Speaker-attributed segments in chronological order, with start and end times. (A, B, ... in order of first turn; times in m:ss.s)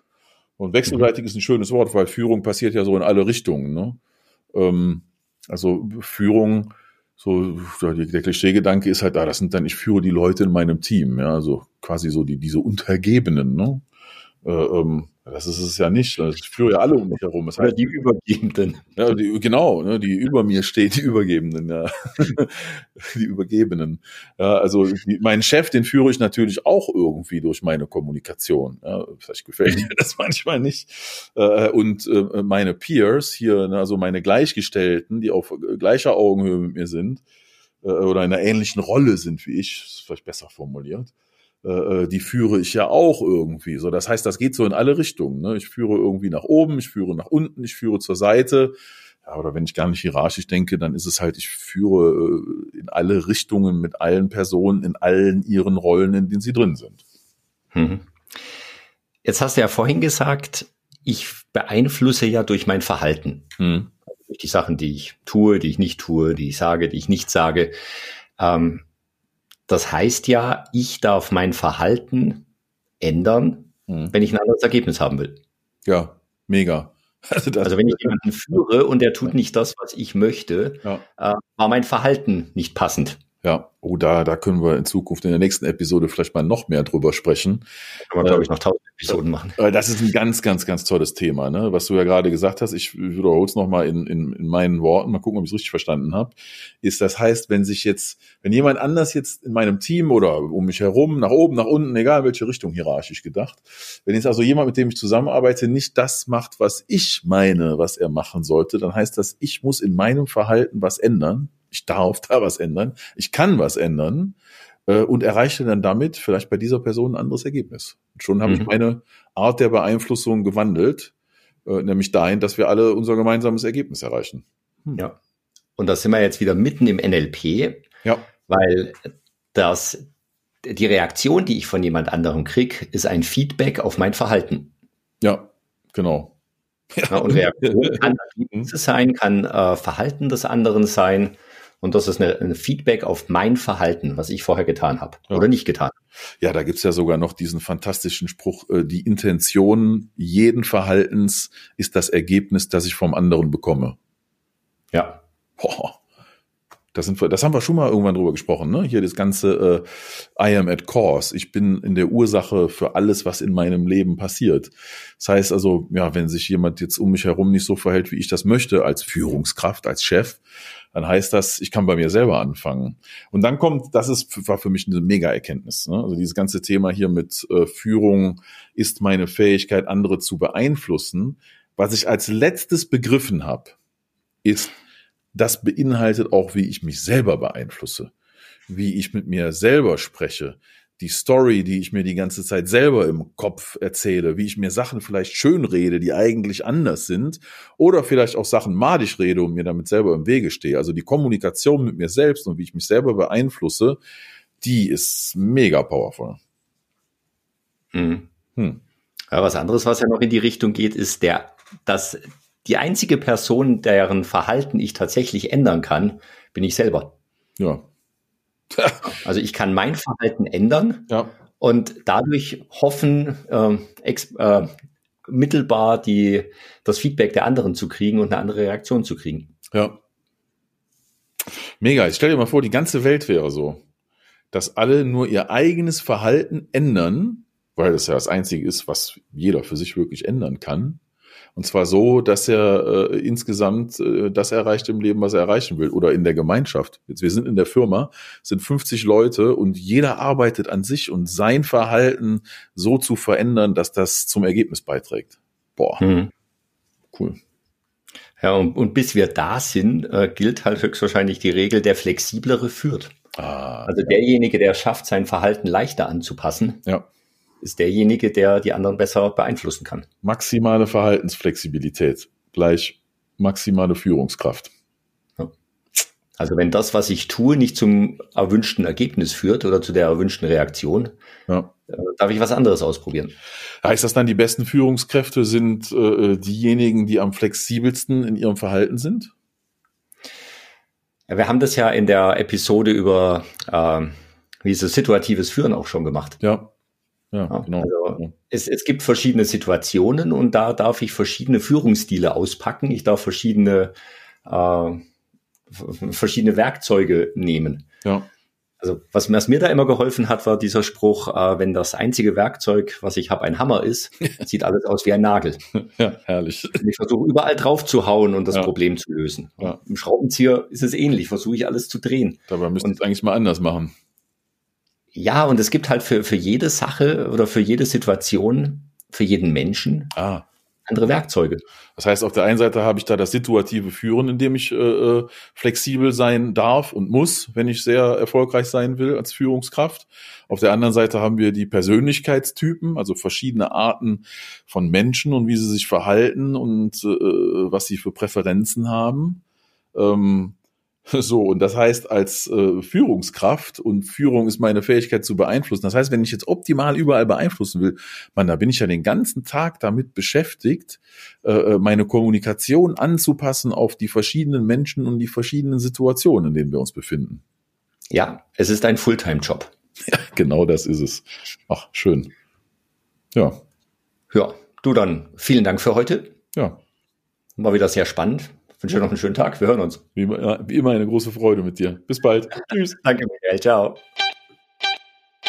0:00.6-0:04.0 A
0:04.5-0:13.8 A
0:14.4-0:17.8 A
0:17.6-0:18.9 B
0:19.0-0:37.2 A
0:37.8-0:41.1 A
0:41.6-0:57.0 A
0:57.7-0:58.1 B
0:59.2-1:03.5 B
1:03.6-1:03.9 A
1:04.1-1:07.7 B
1:08.4-1:08.8 B
1:09.7-1:12.4 B
1:13.0-1:15.4 B
1:13.9-1:14.1 A
1:15.8-1:18.6 A
1:17.6-1:23.2 B
1:23.4-1:27.6 A
1:28.1-1:29.6 B
1:28.2-1:28.5 A
1:29.6-2:01.1 A
1:58.4-1:58.7 B
2:01.6-2:05.0 A
2:05.8-2:07.8 B
2:08.4-2:10.0 B
2:10.6-2:14.7 B
2:15.2-2:16.3 A
2:17.0-2:18.7 A
2:17.1-2:25.9 B
2:26.4-2:34.0 A
2:34.9-2:35.2 B
2:35.6-2:36.0 A
2:36.9-2:50.4 A
2:50.9-3:03.7 A
3:04.4-3:04.8 A
3:05.3-3:08.1 A
3:08.7-3:24.0 A
3:24.6-3:26.4 A
3:27.9-3:28.3 B
3:29.3-3:37.1 B
3:37.6-3:37.8 A
3:38.7-3:39.0 A
3:39.1-3:44.7 B
3:45.2-3:49.5 B
3:49.7-3:50.0 A
3:51.8-3:53.8 A
3:54.5-4:01.0 A
4:01.5-4:16.0 A
4:16.0-4:16.3 B
4:17.1-4:17.4 A
4:18.4-4:23.1 B
4:23.4-4:24.2 A
4:23.8-4:26.8 B
4:27.6-4:30.1 B
4:30.2-4:34.7 A
4:36.4-4:41.1 B
4:41.5-4:41.7 A
4:41.9-4:43.4 B
4:43.8-4:49.3 A
4:51.3-4:56.4 B
4:56.4-4:56.7 A
4:57.3-4:58.3 A
4:57.5-5:05.0 B
5:05.7-5:07.9 B
5:08.8-5:15.6 B
5:15.7-5:16.8 A
5:16.8-5:23.0 B
5:22.5-5:23.9 A
5:25.1-5:30.1 B
5:30.2-5:30.5 A
5:30.9-5:31.6 B
5:32.0-5:49.4 A
5:49.9-6:07.4 A
6:08.1-6:09.7 B
6:10.1-6:12.3 A
6:13.3-6:13.6 A
6:14.3-6:16.3 B
6:16.5-6:16.8 A
6:17.6-6:20.0 B
6:20.2-6:23.0 A
6:23.0-6:24.0 B